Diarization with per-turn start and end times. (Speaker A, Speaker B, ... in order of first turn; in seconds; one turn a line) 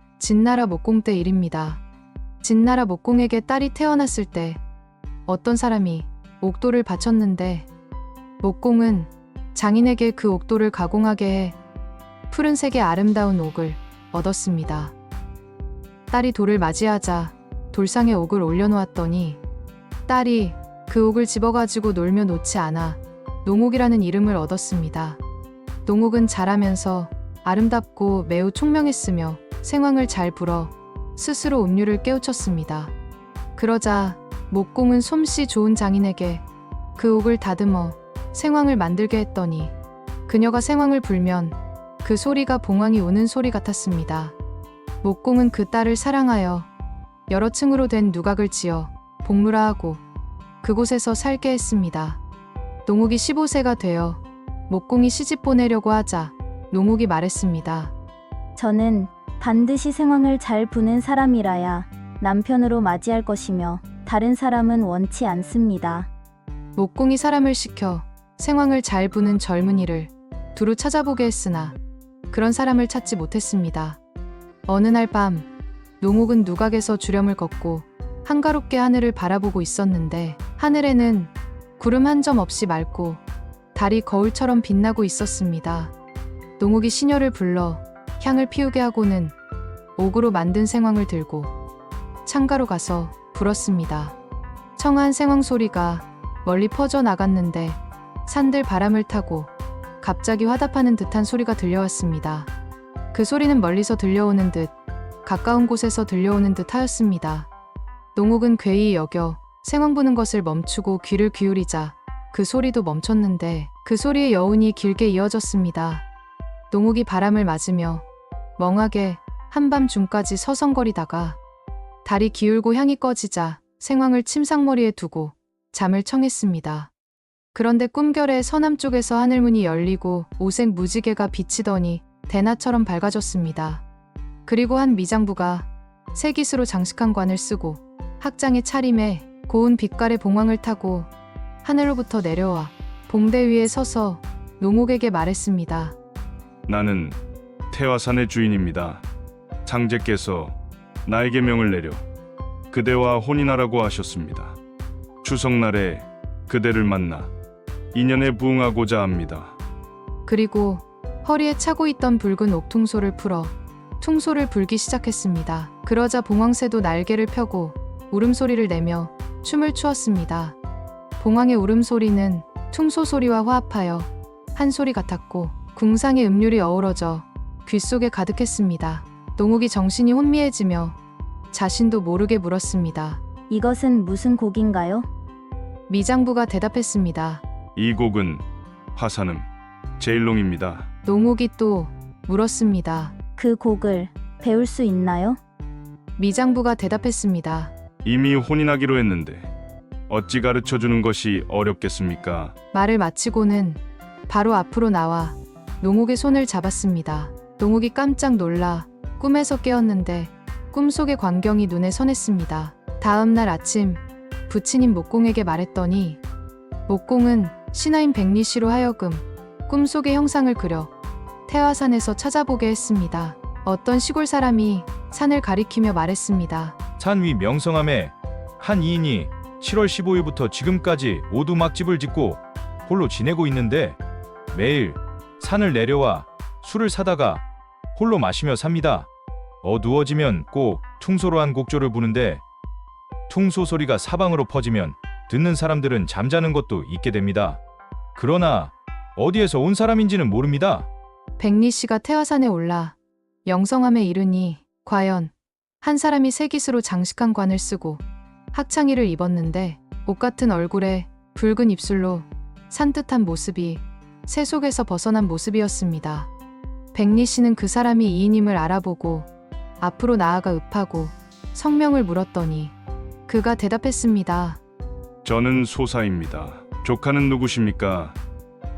Speaker A: 0.2-1.8
Speaker A: 2.4-4.6
Speaker A: 5.3-7.7
Speaker A: 8.4-11.6
Speaker A: 12.3-14.9
Speaker A: 16.1-19.4
Speaker A: 20.1-25.2
Speaker A: 25.9-32.9
Speaker A: 33.6-36.4
Speaker A: 37.0-39.7
Speaker A: 40.3-44.4
Speaker A: 45.0-46.7
Speaker A: 47.3-50.0
Speaker A: 50.6-52.2
Speaker A: 52.9-57.9
Speaker B: 58.6-66.1
Speaker A: 66.8-71.8
Speaker A: 72.3-74.0
Speaker A: 74.7-75.5
Speaker A: 76.0-83.2
Speaker A: 83.8-85.9
Speaker A: 86.6-89.3
Speaker A: 90.0-91.5
Speaker A: 92.3-94.2
Speaker A: 94.8-102.5
Speaker A: 103.1-104.7
Speaker A: 105.2-107.5
Speaker A: 108.2-116.1
Speaker A: 116.7-118.0
Speaker A: 118.6-121.4
Speaker A: 122.0-126.9
Speaker A: 127.5-133.8
Speaker A: 134.5-141.1
Speaker A: 141.6-146.0
Speaker C: 146.7-147.2
Speaker C: 147.7-149.0
Speaker C: 149.7-152.0
Speaker C: 152.7-154.6
Speaker C: 155.2-157.3
Speaker C: 157.9-159.6
Speaker A: 160.3-170.6
Speaker A: 171.2-181.0
Speaker A: 181.5-183.2
Speaker B: 183.5-185.1
Speaker A: 185.9-187.4
Speaker C: 187.8-188.4
Speaker C: 188.9-189.4
Speaker C: 190.0-190.9
Speaker A: 191.1-193.2
Speaker B: 193.4-195.4
Speaker A: 196.2-197.7
Speaker C: 198.0-199.5
Speaker C: 200.1-202.5
Speaker A: 202.7-216.2
Speaker A: 216.9-220.9
Speaker A: 221.5-226.8
Speaker D: 227.0-234.0
Speaker D: 234.5-239.1
Speaker D: 239.6-242.4
Speaker D: 243.3-247.6
Speaker D: 248.2-250.9
Speaker A: 251.4-266.3
Speaker A: 266.9-272.8
Speaker A: 273.3-274.6
Speaker C: 275.2-278.2